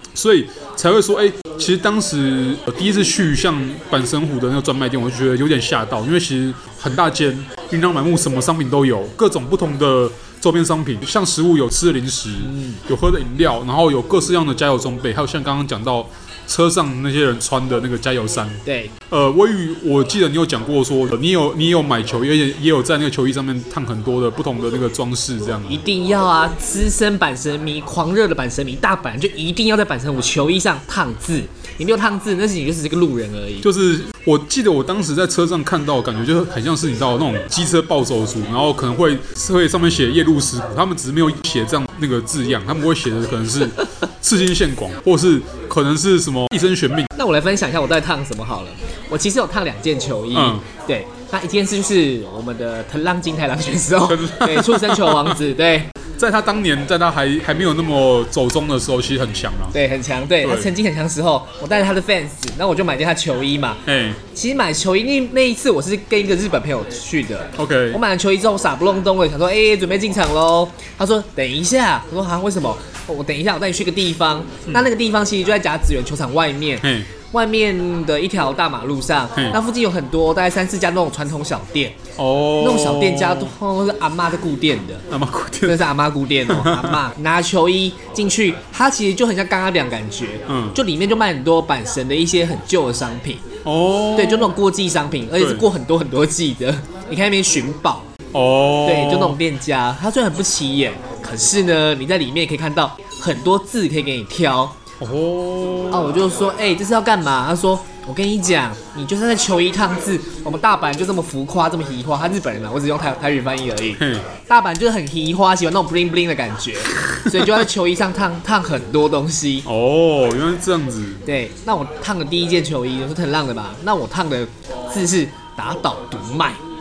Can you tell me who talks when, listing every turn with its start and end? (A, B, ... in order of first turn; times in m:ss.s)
0:00.2-0:25.8 A
0:12.4-0:12.8 B
0:18.6-0:18.9 B
0:25.7-0:33.7 B
0:33.6-0:47.1 A
0:47.2-0:55.9 B
0:50.3-0:50.6 A
0:54.0-0:55.4 A
0:56.2-0:59.8 A
0:59.7-1:22.0 B
1:00.4-1:00.7 A
1:03.8-1:04.2 A
1:07.6-1:08.0 A
1:16.8-1:17.1 A
1:22.2-1:23.5 A
1:22.6-1:25.1 B
1:25.1-1:25.9 A
1:25.6-1:33.5 B
1:26.5-1:27.0 A
1:30.5-1:30.8 A
1:33.6-1:34.6 A
1:34.2-1:38.1 B
1:35.4-1:35.7 A
1:38.3-1:39.4 A
1:38.8-1:44.8 B
1:45.0-1:46.2 A
1:45.9-1:59.7 B
1:54.0-1:54.3 A
1:57.1-1:57.6 A
1:59.6-2:01.2 A
2:01.3-2:06.6 B